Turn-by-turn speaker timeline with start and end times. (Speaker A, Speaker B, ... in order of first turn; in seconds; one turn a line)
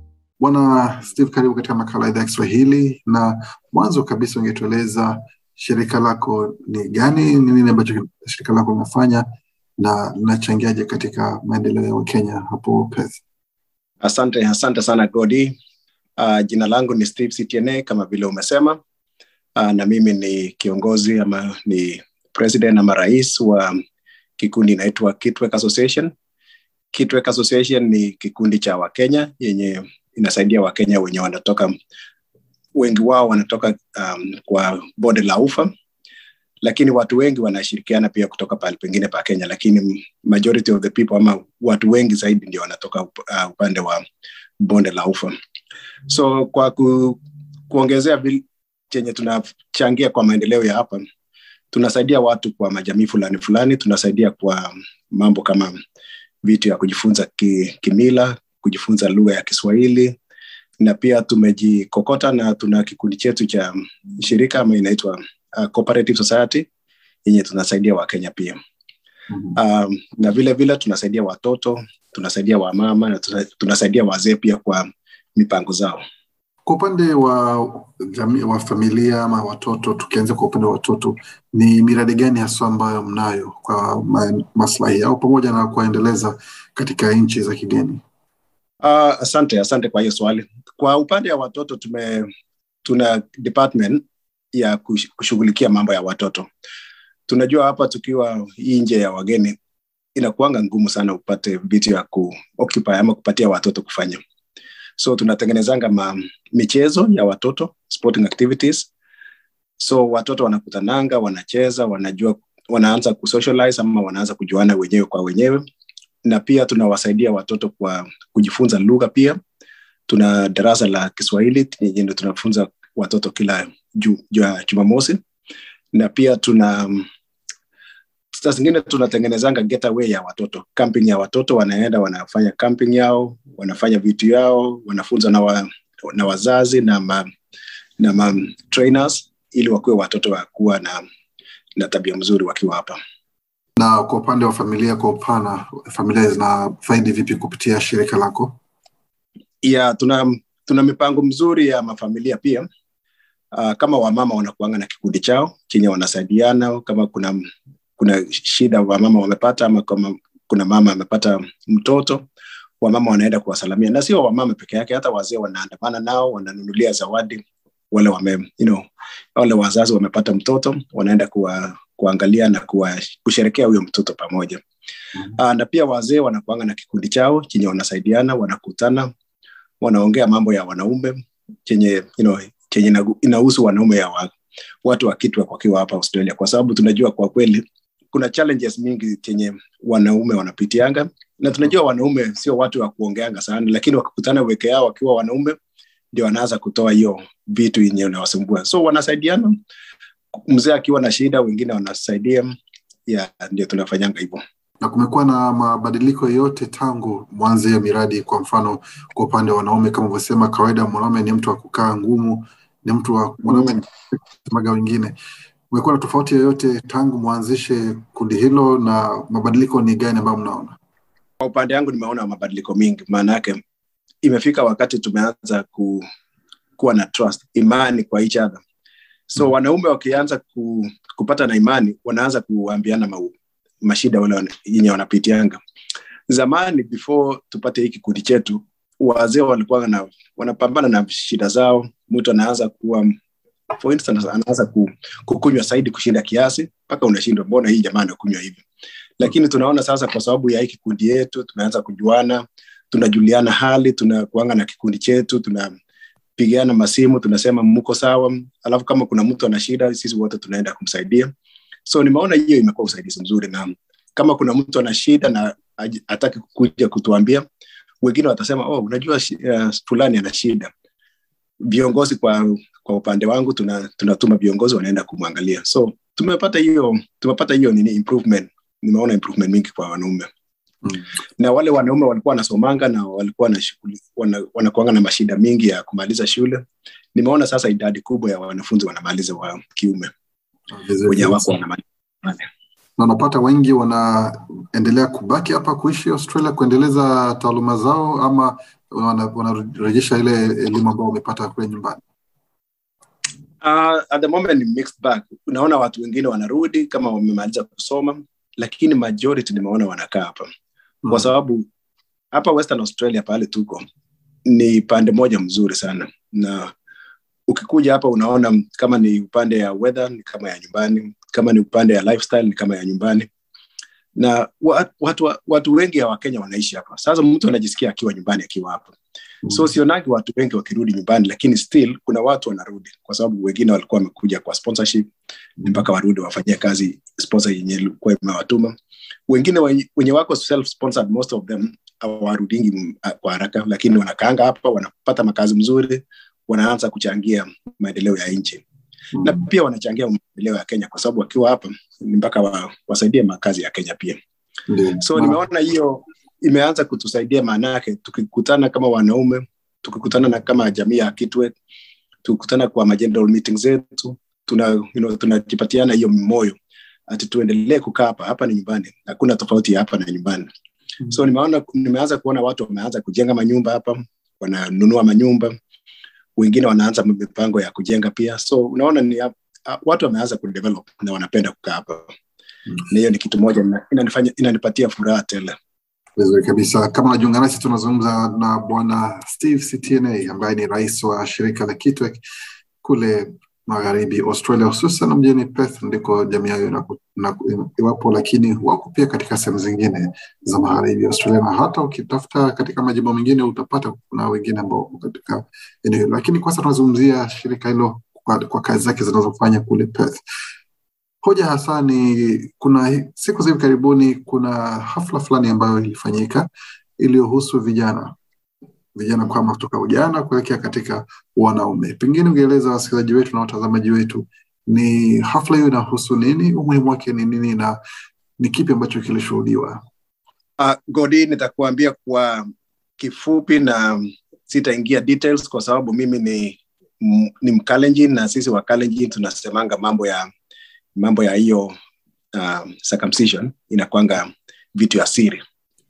Speaker A: 0.4-9.3
Speaker A: 9.8-13.2
Speaker B: 14.0-15.6
Speaker B: 16.2-18.8
Speaker B: 19.6-23.8
Speaker B: 24.4-26.1
Speaker B: 26.9-31.7
Speaker B: 32.8-35.7
Speaker B: 36.6-44.0
Speaker B: 44.6-45.3
Speaker B: 46.1-47.2
Speaker B: 47.7-51.0
Speaker B: 51.7-55.8
Speaker B: 56.4-60.2
Speaker B: 60.8-66.7
Speaker B: 67.2-68.6
Speaker B: 69.6-76.0
Speaker A: 76.7-88.0
Speaker B: 88.8-92.3
Speaker B: 92.8-94.0
Speaker B: 94.5-96.5
Speaker B: 97.3-99.6
Speaker B: 100.2-104.2
Speaker B: 105.0-108.9
Speaker B: 109.8-115.6
Speaker B: 116.2-119.4
Speaker B: 120.1-125.2
Speaker B: 125.9-127.1
Speaker B: 128.3-137.2
Speaker B: 138.0-141.0
Speaker B: 141.8-143.0
Speaker A: 143.8-148.5
Speaker B: 149.6-152.7
Speaker B: 153.5-157.4
Speaker B: 158.0-162.3
Speaker B: 162.8-168.8
Speaker B: 169.3-174.6
Speaker B: 175.4-179.1
Speaker B: 179.8-184.3
Speaker B: 184.8-195.6
Speaker B: 196.1-199.6
Speaker B: 200.3-202.5
Speaker B: 203.1-204.4
Speaker A: 204.8-215.2
Speaker B: 213.5-213.8
Speaker A: 215.7-220.8
Speaker B: 221.4-223.6
Speaker B: 224.2-226.1
Speaker B: 226.8-228.6
Speaker B: 229.3-235.6
Speaker B: 236.3-243.2
Speaker B: 243.8-248.6
Speaker B: 249.2-255.7
Speaker B: 256.4-261.3
Speaker B: 261.9-267.4
Speaker B: 268.0-270.7
Speaker B: 271.6-280.3
Speaker B: 281.4-286.6
Speaker B: 287.1-290.1
Speaker A: 290.7-291.4
Speaker B: 291.1-292.4
Speaker A: 293.0-302.0
Speaker B: 303.6-310.5
Speaker A: 311.0-311.3
Speaker B: 311.1-311.7
Speaker B: 312.3-313.8
Speaker B: 314.5-316.7
Speaker B: 317.5-323.3
Speaker B: 324.2-328.9
Speaker B: 329.5-335.1
Speaker B: 335.6-338.7
Speaker B: 339.3-348.6
Speaker B: 349.2-354.2
Speaker A: 354.7-355.4
Speaker B: 355.0-361.5
Speaker B: 362.2-366.6
Speaker B: 367.1-370.5
Speaker B: 371.1-375.5
Speaker B: 376.4-382.1
Speaker B: 382.9-385.6
Speaker A: 386.2-392.2
Speaker A: 392.8-410.2
Speaker A: 411.2-416.5
Speaker A: 417.0-418.2
Speaker A: 418.9-427.8
Speaker A: 428.4-429.8
Speaker B: 430.6-432.5
Speaker B: 433.0-440.3
Speaker B: 441.0-441.7
Speaker B: 442.3-445.4